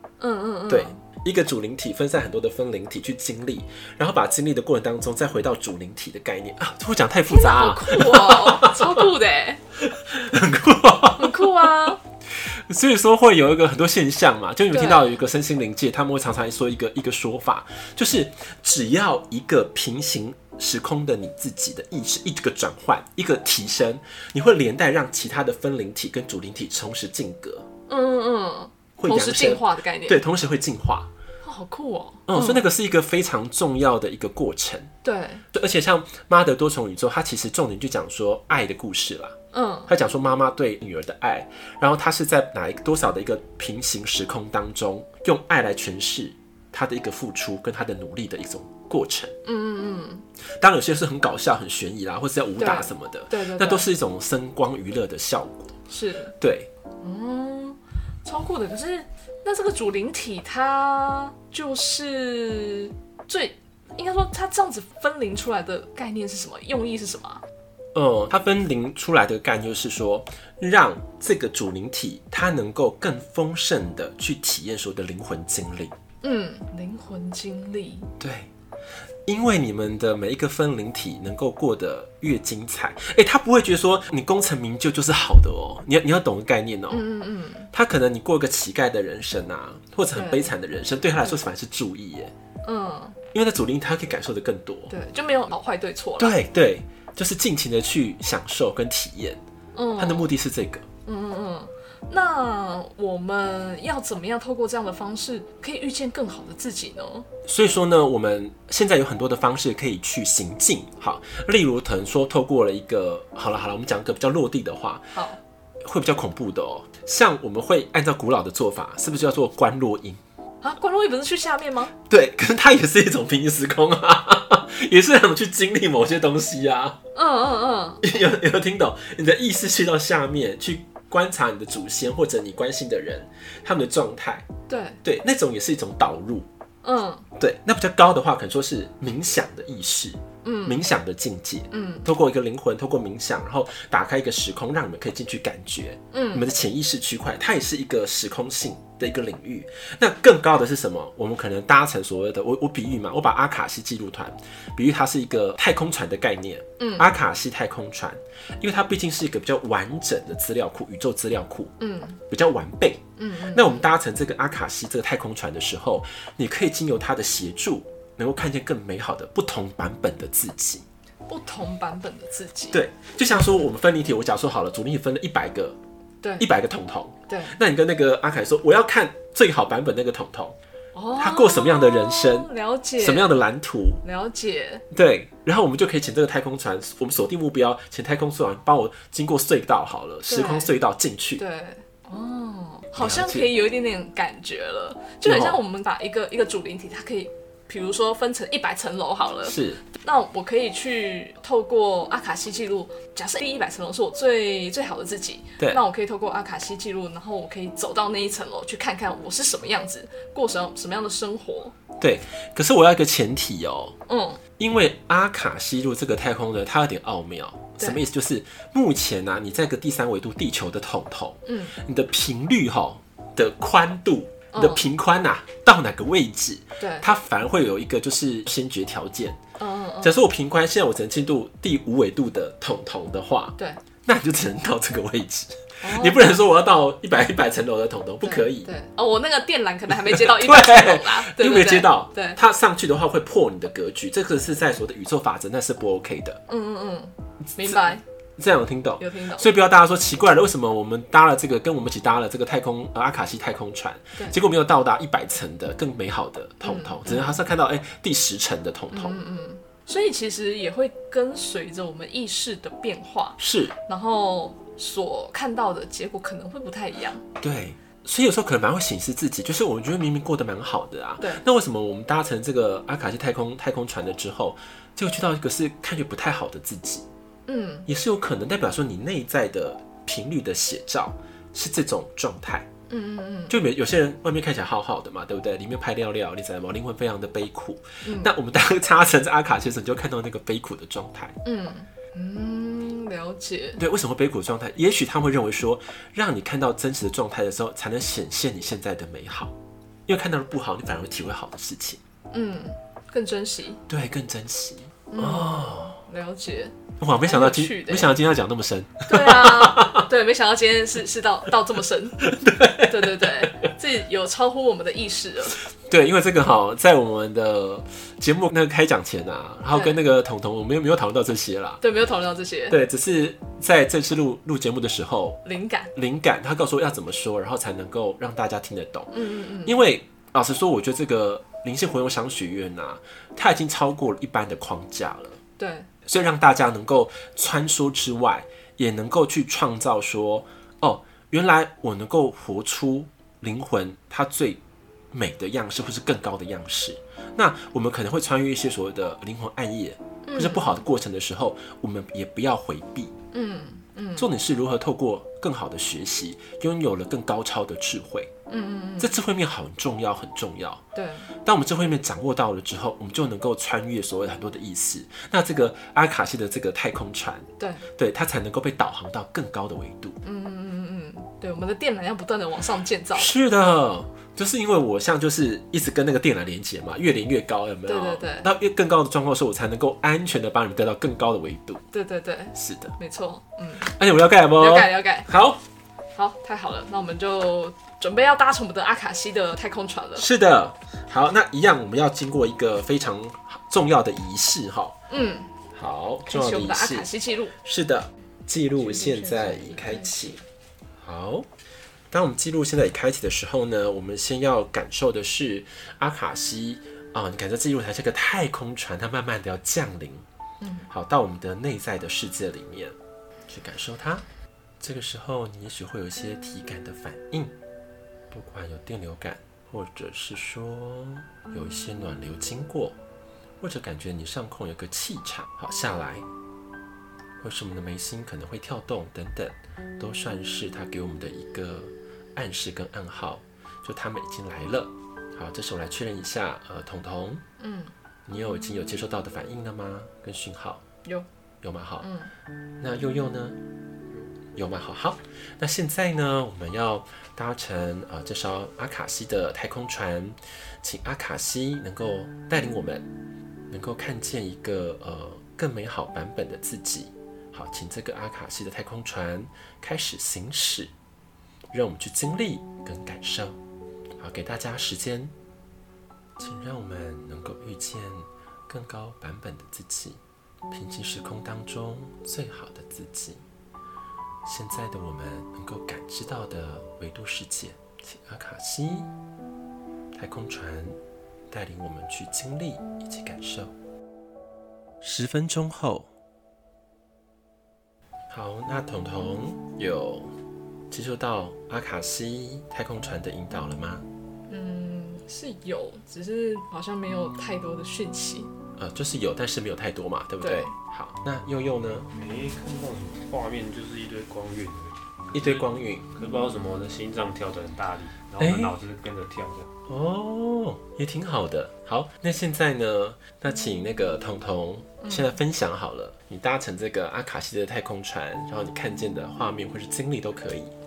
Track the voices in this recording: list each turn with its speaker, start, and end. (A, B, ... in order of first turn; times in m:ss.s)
0:00.2-0:01.0 A
0:00.7-0:09.1 B
0:07.3-0:09.6 A
0:09.8-0:11.7 B
0:11.2-0:12.0 A
0:12.4-0:27.7 B
0:14.7-0:15.2 A
0:27.9-0:30.2 A
0:29.0-0:31.1 B
0:31.4-0:32.7 A
0:32.3-0:34.9 B
0:35.0-0:35.4 A
0:35.5-0:39.4 B
0:39.5-0:39.9 A
0:39.9-0:49.3 B
0:49.4-0:50.2 A
0:50.6-0:55.8 B
0:52.6-0:53.8 A
0:55.9-0:56.3 A
0:56.4-0:56.7 B
0:57.0-1:07.4 A
1:07.9-1:16.0 B
1:16.2-1:18.1 A
1:18.2-1:18.5 B
1:19.2-1:27.0 B
1:26.9-1:27.7 A
1:27.7-1:32.3 B
1:30.1-1:30.5 A
1:32.6-1:33.2 A
1:33.3-1:34.9 B
1:34.9-1:36.4 A
1:36.2-1:39.4 B
1:39.7-1:40.3 A
1:40.0-1:40.8 B
1:41.0-1:47.3 A
1:47.4-1:55.2 B
1:55.1-1:55.4 A
1:55.8-2:00.2 B
2:00.6-2:01.9 A
2:02.1-2:07.0 B
2:07.1-2:08.0 A
2:08.0-2:14.5 B
2:14.7-2:15.0 A
2:15.0-2:16.5 B
2:16.8-2:17.3 A
2:17.4-2:41.7 B
2:20.4-2:20.8 A
2:21.7-2:22.1 A
2:26.1-2:26.5 A
2:36.8-2:37.1 A
2:41.8-2:42.2 A
2:42.3-2:50.8 B
2:43.2-2:43.8 A
2:51.3-2:52.8 A
2:52.7-2:55.8 B
2:56.2-2:56.5 A
2:56.4-3:00.6 B
2:57.3-2:57.5 A
3:00.9-3:03.3 A
3:01.2-3:04.0 B
3:04.0-3:04.8 A
3:04.9-3:11.4 B
3:10.3-3:10.7 A
3:11.4-3:31.7 A
3:13.0-3:13.5 B
3:15.2-3:15.6 B
3:19.4-3:19.8 B
3:32.0-3:33.9 B
3:34.1-3:34.4 A
3:34.6-3:49.4 B
3:41.4-3:41.8 A
3:44.5-3:44.8 A
3:46.8-3:47.0 A
3:49.6-3:50.2 A
3:50.0-3:58.7 B
3:55.8-3:56.3 A
3:58.2-4:02.4 A
3:59.9-4:06.4 B
4:06.5-4:08.0 A
4:07.6-4:19.2 B
4:09.0-4:09.5 A
4:16.6-4:17.4 A
4:18.9-4:27.2 A
4:23.4-4:23.7 B
4:27.4-4:37.0 B
4:37.5-4:37.9 A
4:37.9-4:42.7 B
4:42.9-4:43.6 A
4:43.5-4:51.4 B
4:48.0-4:48.3 A
4:51.4-4:53.8 A
4:53.8-4:59.5 B
5:00.1-5:02.0 B
5:02.3-5:03.8 A
5:03.9-5:06.0 B
5:05.1-5:08.1 A
5:07.0-5:10.0 B
5:09.1-5:15.6 A
5:12.2-5:13.7 B
5:15.7-5:21.8 B
5:19.7-5:20.0 A
5:21.8-5:22.8 A
5:22.7-5:25.4 B
5:25.4-5:25.9 A
5:25.9-5:35.4 B
5:29.1-5:29.8 A
5:35.6-5:35.9 A
5:36.0-5:44.6 B
5:45.1-5:53.1 B
5:50.2-5:50.8 A
5:53.3-5:54.3 A
5:54.2-5:58.3 B
5:58.5-5:59.1 A
5:59.0-6:00.8 B
6:00.9-6:01.3 A
6:01.4-6:10.2 B
6:07.6-6:07.8 A
6:10.2-6:13.3 A
6:13.1-6:21.8 B
6:17.9-6:18.5 A
6:21.9-6:23.9 A
6:22.6-6:22.9 B
6:23.8-6:25.6 B
6:24.6-6:25.3 A
6:26.1-6:30.3 A
6:30.2-6:35.0 B
6:35.1-6:35.5 A
6:35.7-6:40.4 B
6:36.2-6:37.5 A
6:38.8-6:40.3 A
6:41.0-6:41.5 B
6:42.1-6:50.2 B
6:50.6-6:50.9 A
6:50.9-6:53.0 B
6:53.5-6:54.2 B
6:54.8-6:57.5 B
6:58.3-7:03.0 B
7:03.6-7:06.2 B
7:07.4-7:17.4 B
7:17.6-7:17.9 A
7:18.3-7:20.8 B
7:21.6-7:22.1 B
7:22.0-7:22.3 A
7:22.8-7:23.6 B
7:24.5-7:33.1 B
7:33.7-7:40.9 B
7:41.7-7:43.6 B
7:44.2-7:45.3 B
7:46.4-7:50.2 B
7:50.7-7:53.4 B
7:54.4-7:59.1 B
8:00.1-8:01.0 B
8:01.5-8:03.7 B
8:05.0-8:06.1 B
8:08.3-8:10.3 B
8:10.9-8:14.0 B
8:14.5-8:18.5 A
8:18.8-8:22.1 B
8:20.4-8:20.7 A
8:22.1-8:29.7 C
8:25.3-8:26.1 B
8:28.4-8:28.8 B
8:29.9-8:40.7 B
8:35.0-8:35.4 A